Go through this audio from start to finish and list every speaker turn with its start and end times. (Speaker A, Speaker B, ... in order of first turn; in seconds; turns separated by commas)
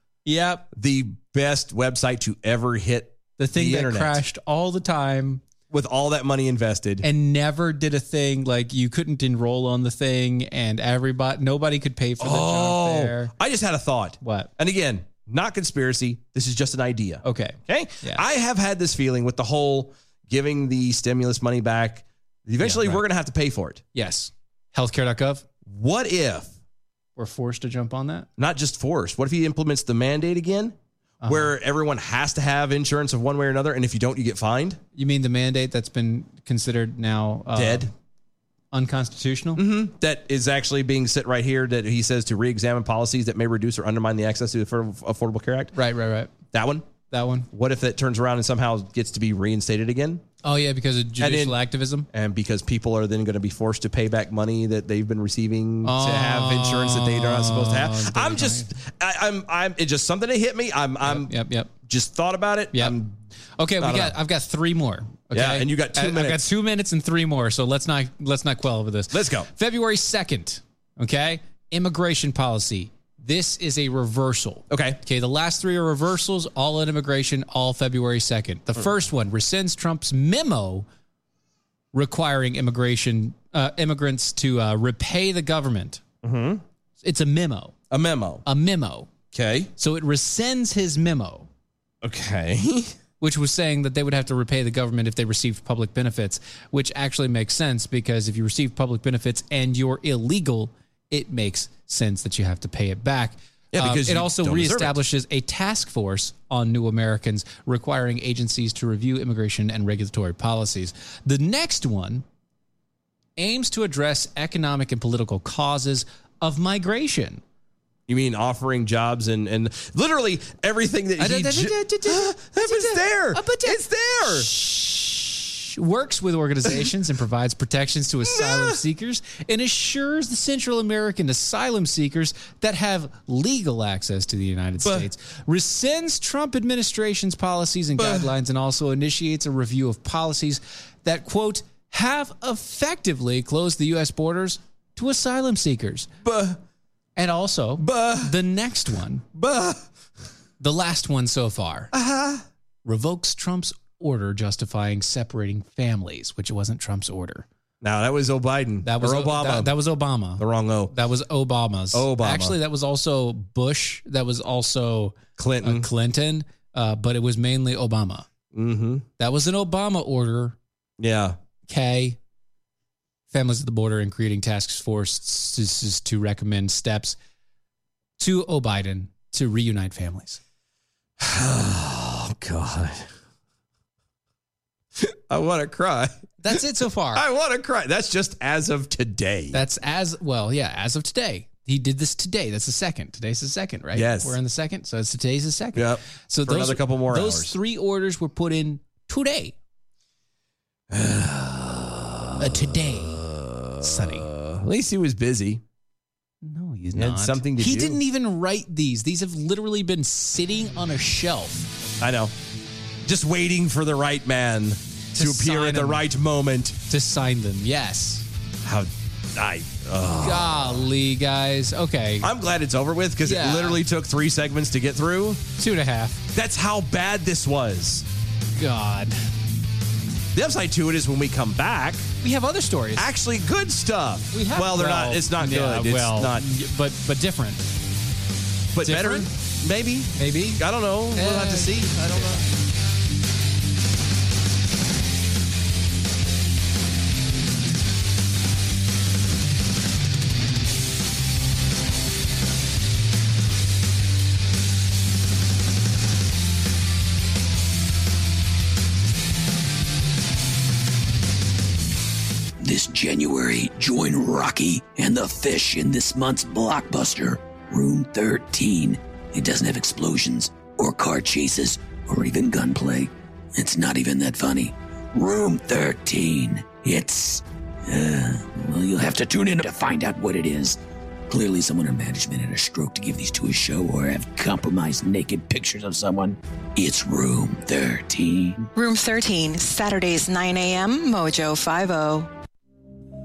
Speaker A: 0.2-0.7, Speaker B: 0.7-4.2, Speaker A: 3.4-5.4, Speaker B: 5.7-7.0, Speaker A: 7.0-13.3, Speaker B: 12.2-23.8, Speaker A: 14.2-14.5, Speaker A: 17.2-18.2, Speaker A: 22.6-23.0, Speaker A: 23.9-25.5, Speaker B: 25.6-26.6, Speaker A: 27.2-28.3, Speaker B: 28.4-34.8, Speaker A: 31.2-31.5, Speaker A: 35.0-37.9, Speaker B: 37.5-37.9, Speaker A: 38.7-39.6, Speaker B: 39.6-45.7, Speaker A: 45.8-46.3, Speaker B: 46.5-46.9, Speaker A: 47.1-47.5, Speaker B: 47.5-50.2, Speaker A: 50.4-52.1, Speaker B: 51.2-51.6, Speaker B: 52.1-61.3, Speaker A: 55.9-58.7, Speaker A: 61.0-61.7, Speaker B: 61.9-63.2, Speaker A: 63.6-80.9, Speaker B: 63.8-64.2, Speaker B: 65.3-66.4, Speaker B: 69.1-69.5, Speaker B: 74.7-75.0, Speaker A: 81.9-86.0, Speaker B: 86.2-86.6, Speaker A: 87.0-87.7, Speaker B: 87.9-88.4, Speaker A: 88.5-89.1, Speaker B: 89.3-89.7, Speaker A: 89.8-91.5, Speaker B: 92.0-92.9, Speaker A: 93.2-112.2, Speaker B: 103.7-105.0, Speaker A: 113.4-117.4, Speaker B: 118.1-124.5, Speaker A: 121.2-146.1, Speaker B: 128.3-128.8, Speaker B: 134.8-135.1, Speaker B: 138.0-138.3, Speaker B: 146.2-146.6, Speaker A: 147.2-149.2, Speaker B: 147.8-148.3, Speaker B: 149.3-149.8, Speaker A: 150.6-151.9, Speaker B: 151.9-152.4, Speaker A: 152.8-157.5, Speaker B: 157.8-159.7, Speaker A: 158.8-168.3, Speaker B: 160.4-160.9, Speaker B: 161.9-162.6, Speaker B: 165.4-165.9, Speaker B: 168.5-169.1, Speaker A: 169.2-170.6, Speaker B: 171.0-171.4, Speaker A: 171.7-172.2, Speaker A: 173.3-177.2, Speaker A: 178.2-180.4, Speaker B: 181.2-183.1, Speaker B: 185.0-186.6, Speaker A: 186.4-187.2, Speaker B: 187.1-189.6, Speaker A: 189.5-199.6, Speaker B: 193.9-194.4, Speaker B: 195.8-197.5, Speaker B: 200.9-205.6, Speaker A: 202.4-203.2, Speaker A: 203.8-204.3, Speaker A: 206.4-211.7, Speaker B: 206.9-208.0, Speaker B: 212.0-212.3, Speaker B: 213.1-216.8, Speaker A: 215.2-216.0, Speaker A: 216.9-218.3, Speaker B: 218.6-220.9, Speaker A: 220.2-222.3, Speaker B: 222.2-225.4, Speaker A: 223.2-223.8, Speaker A: 225.6-226.2, Speaker B: 226.3-228.1, Speaker A: 228.6-229.3, Speaker B: 230.3-232.1, Speaker A: 232.2-233.1, Speaker B: 233.0-236.4, Speaker A: 234.3-237.6, Speaker B: 238.7-242.4, Speaker A: 238.8-239.3, Speaker A: 240.2-242.3, Speaker C: 262.6-280.8, Speaker C: 281.3-288.7, Speaker D: 288.8-292.3